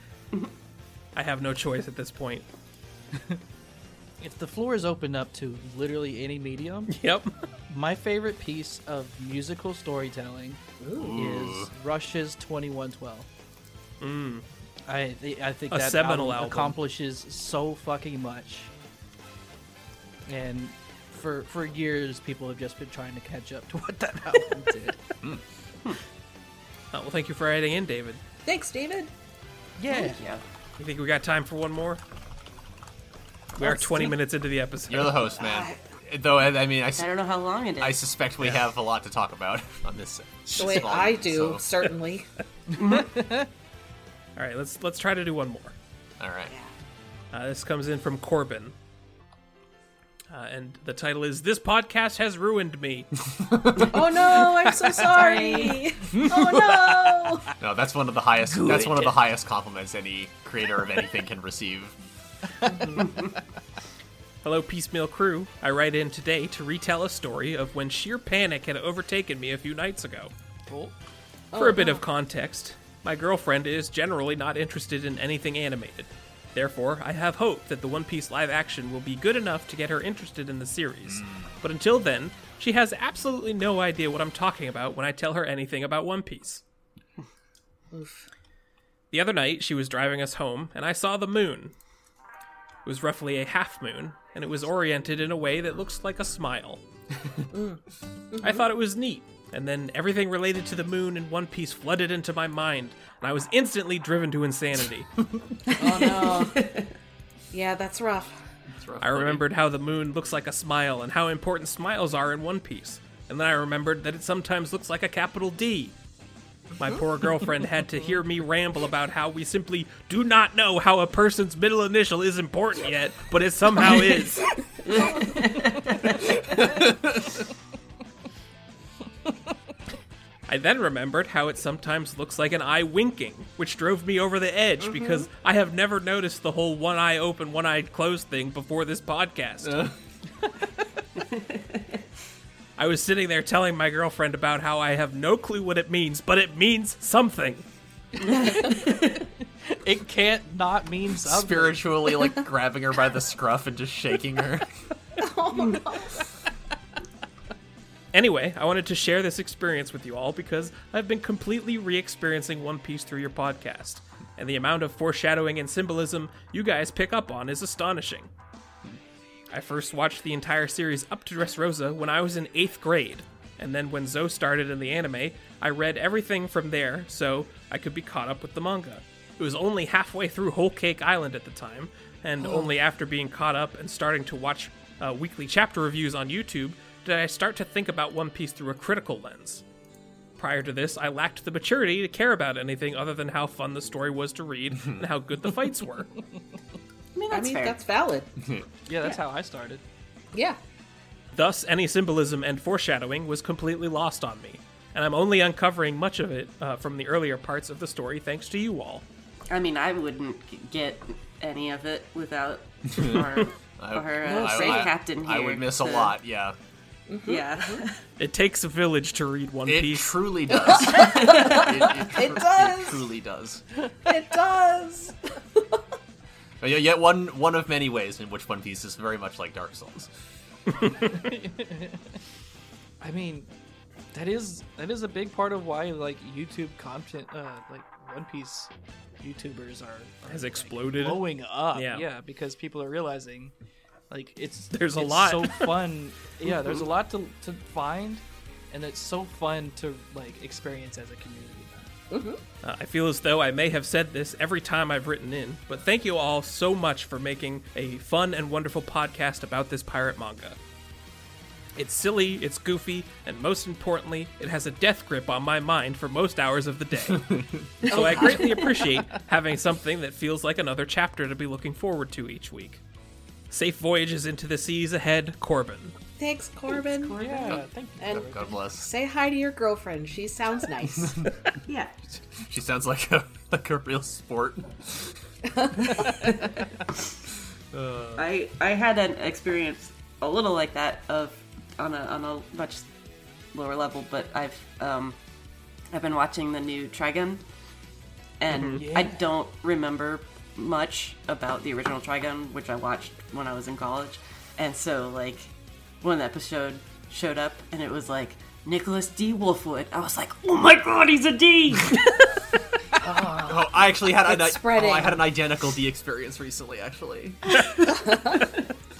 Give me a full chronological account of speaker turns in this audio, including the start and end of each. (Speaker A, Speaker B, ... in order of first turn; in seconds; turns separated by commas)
Speaker A: 1.1-2.5, Speaker B: 4.2-7.0, Speaker A: 6.9-7.3, Speaker B: 7.7-10.6, Speaker C: 10.8-11.2, Speaker D: 10.9-11.7, Speaker B: 11.1-13.3, Speaker A: 14.0-14.4, Speaker B: 14.9-18.7, Speaker A: 15.7-16.8, Speaker B: 20.3-25.0, Speaker A: 26.9-28.2, Speaker C: 28.5-29.1, Speaker B: 29.8-30.2, Speaker E: 29.9-30.4, Speaker A: 30.8-32.0, Speaker A: 33.6-35.2, Speaker C: 33.6-34.2, Speaker D: 34.9-37.1, Speaker C: 35.4-35.8, Speaker E: 37.0-38.0, Speaker D: 37.8-41.8, Speaker C: 40.5-42.3, Speaker E: 42.8-43.1, Speaker B: 42.8-43.5, Speaker A: 44.4-45.8, Speaker D: 46.2-46.5, Speaker A: 47.3-48.8, Speaker A: 50.3-53.1, Speaker D: 53.3-54.2, Speaker C: 53.8-57.5, Speaker E: 55.1-55.9, Speaker B: 56.1-57.4, Speaker D: 57.6-62.0, Speaker B: 58.5-59.1, Speaker B: 62.6-63.3, Speaker E: 63.0-63.3, Speaker A: 64.4-70.3, Speaker B: 70.7-70.9, Speaker C: 71.5-72.0, Speaker A: 71.5-86.6, Speaker D: 81.1-81.5, Speaker C: 87.9-88.3, Speaker A: 89.1-91.7, Speaker A: 92.8-96.8, Speaker C: 97.5-98.7, Speaker A: 98.4-105.1, Speaker C: 105.7-106.6, Speaker E: 105.8-106.9, Speaker C: 107.5-108.4, Speaker D: 108.7-109.4, Speaker A: 109.0-116.0, Speaker A: 116.8-124.5, Speaker E: 124.8-126.7, Speaker C: 124.9-125.6, Speaker D: 126.7-127.2, Speaker A: 130.5-139.9, Speaker C: 135.0-135.2, Speaker D: 139.6-139.9, Speaker E: 141.2-141.8, Speaker A: 142.8-147.7, Speaker E: 148.2-149.2, Speaker B: 148.2-151.9, Speaker D: 151.2-154.7, Speaker C: 155.2-156.3, Speaker A: 158.1-168.3, Speaker A: 169.5-189.6, Speaker C: 182.4-182.7, Speaker A: 190.4-196.1, Speaker E: 197.2-197.8, Speaker C: 197.3-198.3, Speaker D: 198.4-198.7, Speaker B: 198.9-199.8, Speaker A: 201.3-209.0, Speaker E: 209.5-216.2, Speaker D: 212.9-213.3, Speaker D: 213.8-216.6, Speaker C: 214.2-214.9, Speaker C: 217.1-217.8, Speaker E: 217.3-218.0, Speaker A: 218.2-220.3, Speaker D: 219.7-223.6, Speaker C: 220.5-223.0, Speaker E: 220.9-221.7, Speaker C: 224.1-225.7, Speaker D: 226.6-230.1, Speaker A: 230.8-231.1, Speaker B: 231.0-232.2, Speaker B: 233.0-233.5, Speaker B: 234.1-243.5, Speaker A: 240.3-242.1, Speaker B: 244.1-251.7, Speaker A: 244.7-245.7, Speaker C: 252.1-252.4, Speaker A: 252.6-260.6, Speaker A: 261.8-272.8, Speaker D: 267.1-267.7, Speaker C: 267.9-268.8, Speaker A: 273.5-275.9, Speaker C: 276.2-281.3, Speaker E: 276.7-277.6, Speaker B: 277.2-278.5, Speaker D: 278.1-278.9, Speaker D: 281.0-281.3, Speaker E: 281.7-281.9, Speaker D: 282.4-285.1, Speaker C: 285.5-286.3, Speaker E: 286.0-286.6, Speaker D: 287.7-288.3, Speaker E: 288.2-292.9, Speaker E: 293.5-295.2, Speaker E: 295.9-297.4, Speaker E: 298.4-312.4, Speaker A: 298.5-298.9, Speaker B: 298.7-299.2, Speaker C: 313.0-315.3, Speaker D: 313.4-317.6, Speaker C: 317.8-318.4